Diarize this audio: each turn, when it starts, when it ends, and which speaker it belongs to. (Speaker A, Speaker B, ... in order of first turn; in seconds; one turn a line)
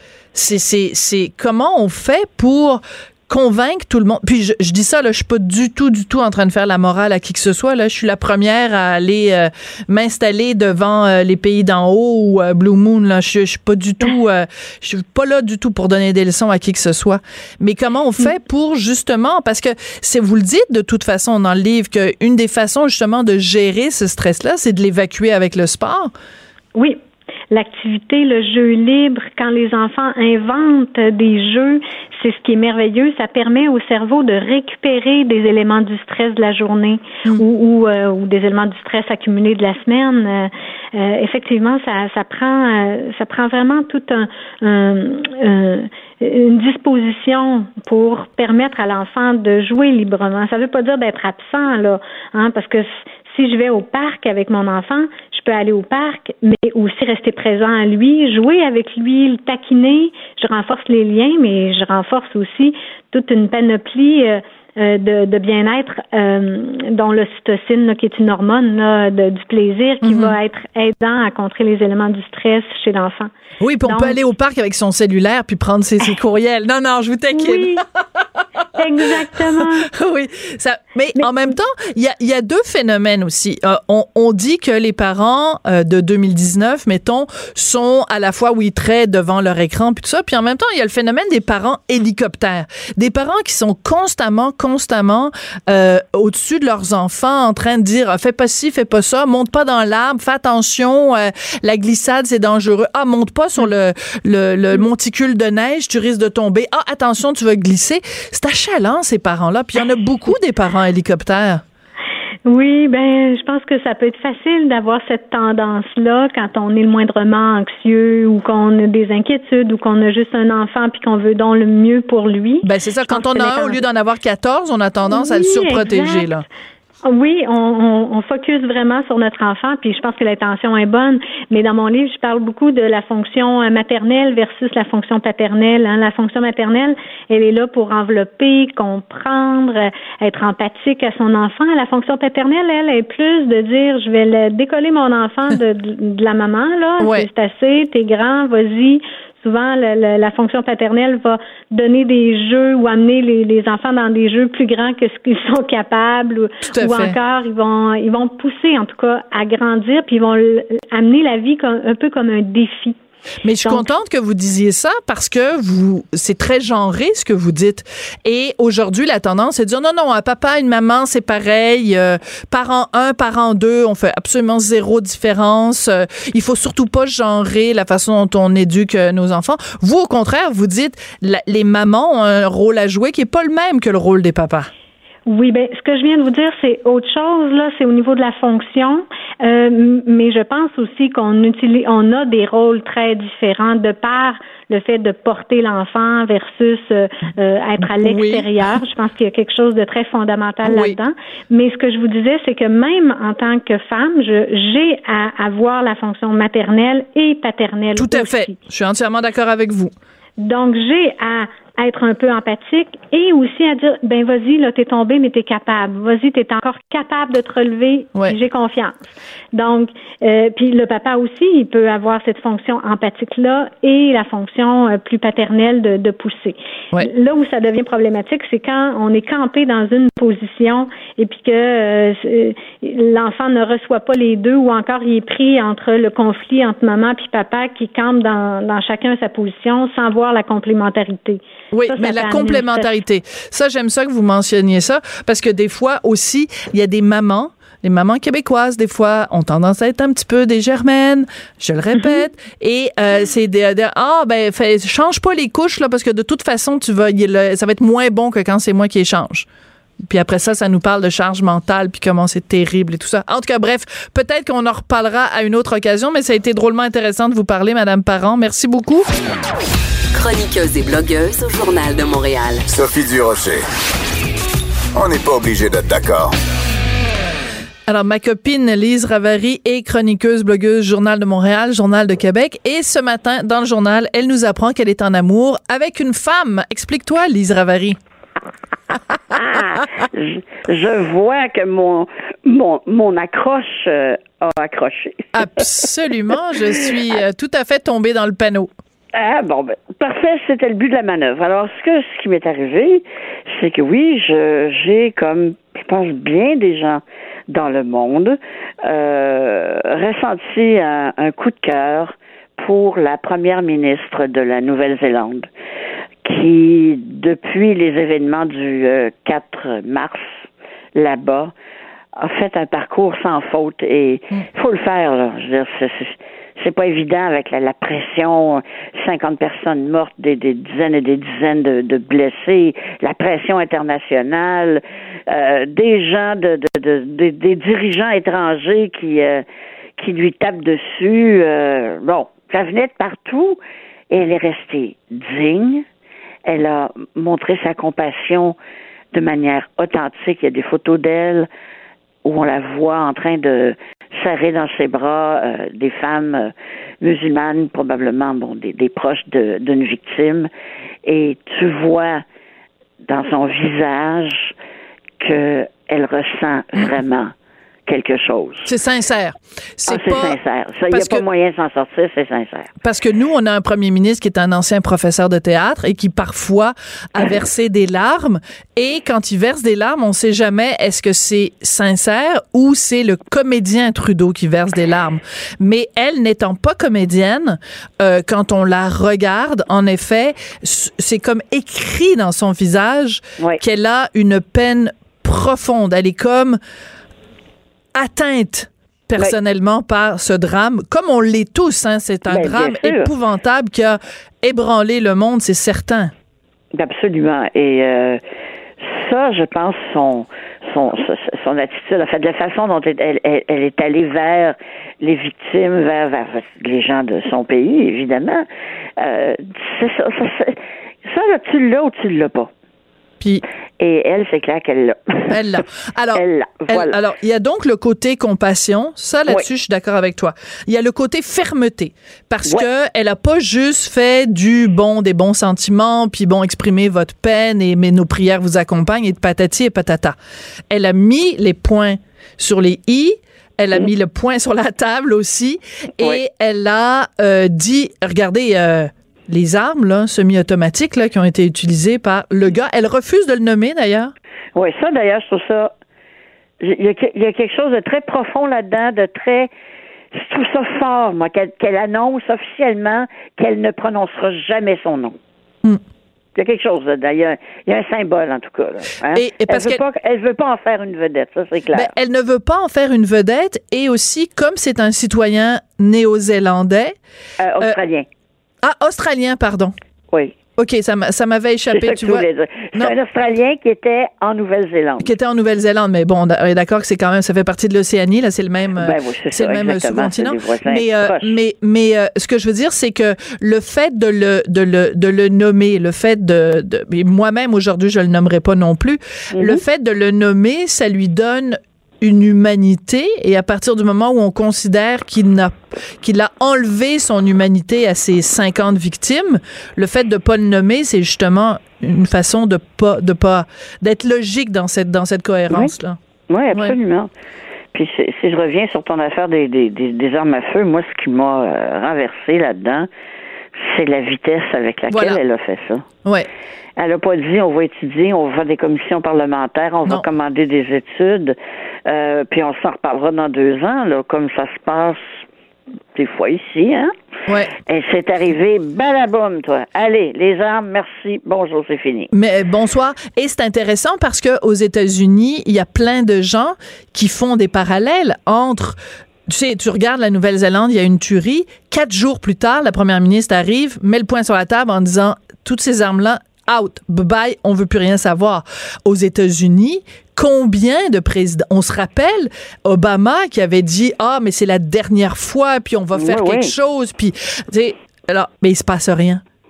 Speaker A: 0.3-26.1
Speaker B: 26.8-73.3
Speaker A: 70.0-70.4
Speaker A: 73.6-77.8
Speaker B: 73.9-74.2
Speaker B: 77.3-77.8
Speaker B: 78.7-79.9
Speaker A: 79.2-111.6
Speaker B: 112.5-123.8
Speaker A: 122.6-126.5
Speaker B: 125.1-126.3
Speaker B: 127.1-163.0
Speaker A: 147.0-147.3
Speaker A: 156.7-157.2
Speaker A: 163.4-184.7
Speaker B: 163.6-163.9
Speaker B: 185.3-208.5
Speaker A: 197.8-198.5
Speaker A: 200.6-201.0
Speaker A: 207.9-209.9
Speaker B: 210.4-219.0
Speaker B: 219.5-242.9
Speaker A: 241.7-259.5
Speaker A: 260.1-269.1
Speaker C: 270.1-272.6
Speaker D: 272.7-273.6
Speaker D: 274.9-276.4
Speaker A: 277.9-288.0
Speaker E: 289.3-295.9
Speaker A: 295.4-298.7
Speaker E: 299.1-315.5
Speaker E: 316.2-320.3
Speaker E: 320.9-321.5
Speaker E: 322.2-339.4
Speaker E: 340.0-343.6
Speaker E: 344.1-345.9
Speaker E: 346.5-348.6
Speaker E: 349.1-351.5
Speaker E: 352.2-360.5
Speaker E: 361.1-362.2
Speaker E: 363.1-364.5
Speaker E: 365.2-367.3
Speaker E: 367.9-368.7
Speaker A: 368.6-370.4
Speaker E: 369.9-372.7
Speaker A: 370.9-371.2
Speaker A: 372.8-396.6
Speaker A: 397.9-406.1
Speaker E: 402.3-403.1
Speaker E: 406.8-408.2
Speaker E: 408.8-418.5
Speaker E: 419.0-422.5
Speaker E: 423.8-425.6
Speaker A: 425.3-440.2
Speaker E: 426.1-427.0
Speaker A: 440.7-454.1
Speaker E: 454.6-455.7
Speaker E: 456.6-459.5
Speaker E: 460.1-465.2
Speaker E: 466.4-471.9
Speaker A: 469.1-469.8
Speaker A: 471.7-477.0
Speaker E: 477.4-478.1
Speaker A: 478.6-479.7
Speaker A: 480.6-482.9
Speaker E: 481.7-485.1
Speaker A: 485.0-516.0
Speaker E: 488.8-491.4
Speaker E: 499.3-499.6
Speaker E: 516.3-517.1
Speaker E: 517.7-522.9
Speaker E: 523.6-525.9
Speaker A: 524.9-525.2
Speaker E: 526.8-531.4
Speaker E: 531.9-535.2
Speaker E: 536.0-536.9
Speaker E: 537.7-542.1
Speaker A: 542.1-569.2
Speaker E: 565.9-566.5